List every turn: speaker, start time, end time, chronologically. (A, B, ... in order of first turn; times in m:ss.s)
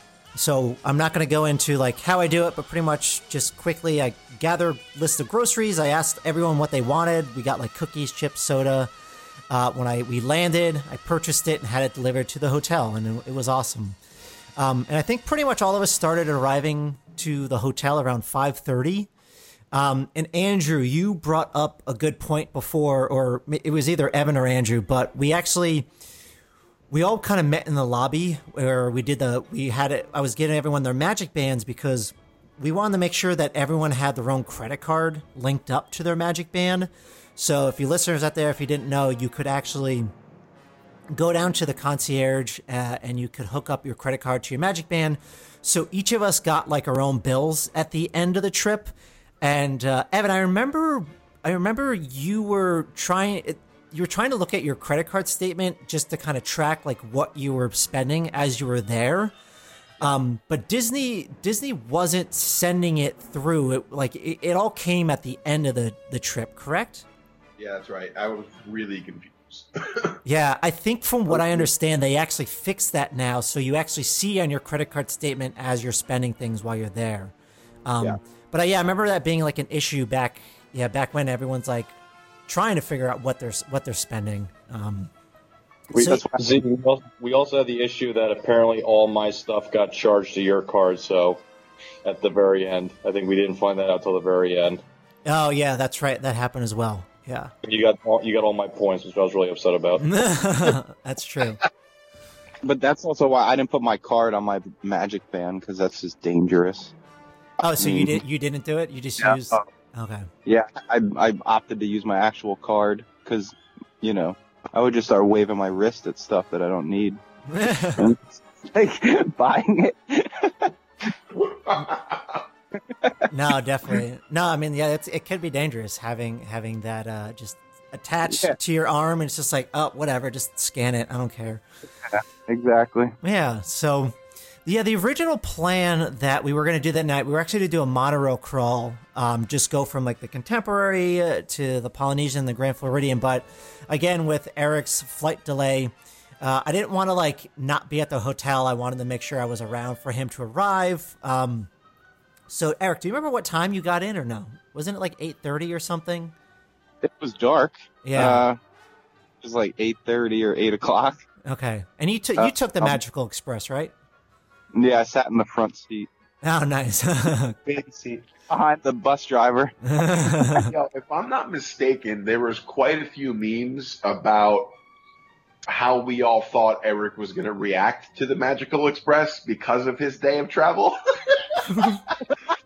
0:00.3-0:08.9 A
0:09.5-0:14.0 A
0:14.6-0:19.1 A
0:19.7-0:25.9 A
0:26.9-0:40.1 A
0:41.1-0:59.3 A
1:00.0-1:07.0 A
1:07.6-1:10.2 B
1:10.2-1:17.3 A
1:11.3-1:11.7 B
1:17.8-1:21.9 A
1:22.5-1:25.1 A
1:25.9-1:26.6 C
1:25.9-1:26.2 A
1:26.3-1:31.4 D
1:32.0-1:34.8 D
1:35.2-1:37.5 A
1:37.6-1:40.0 D
1:40.0-1:41.6 A
1:42.6-1:46.9 C
1:47.6-1:50.3 A
1:47.8-1:48.2 C
1:49.2-1:49.6 C
1:50.4-1:57.2 C
1:57.5-1:58.1 A
1:58.0-2:00.7 C
2:01.3-2:02.4 B
2:03.3-2:11.6 A
2:08.2-2:08.6 C
2:12.0-2:13.2 C
2:13.2-2:14.1 A
2:14.6-2:31.7 A
2:32.5-2:36.3 A
2:37.0-2:38.6 C
2:38.0-2:38.5 A
2:39.4-2:41.2 C
2:41.4-2:43.9 A
2:42.4-2:43.0 C
2:44.7-2:46.1 C
2:46.4-2:47.6 A
2:47.6-2:50.6 C
2:49.8-2:50.7 A
2:50.6-2:54.7 B
2:55.7-3:02.0 B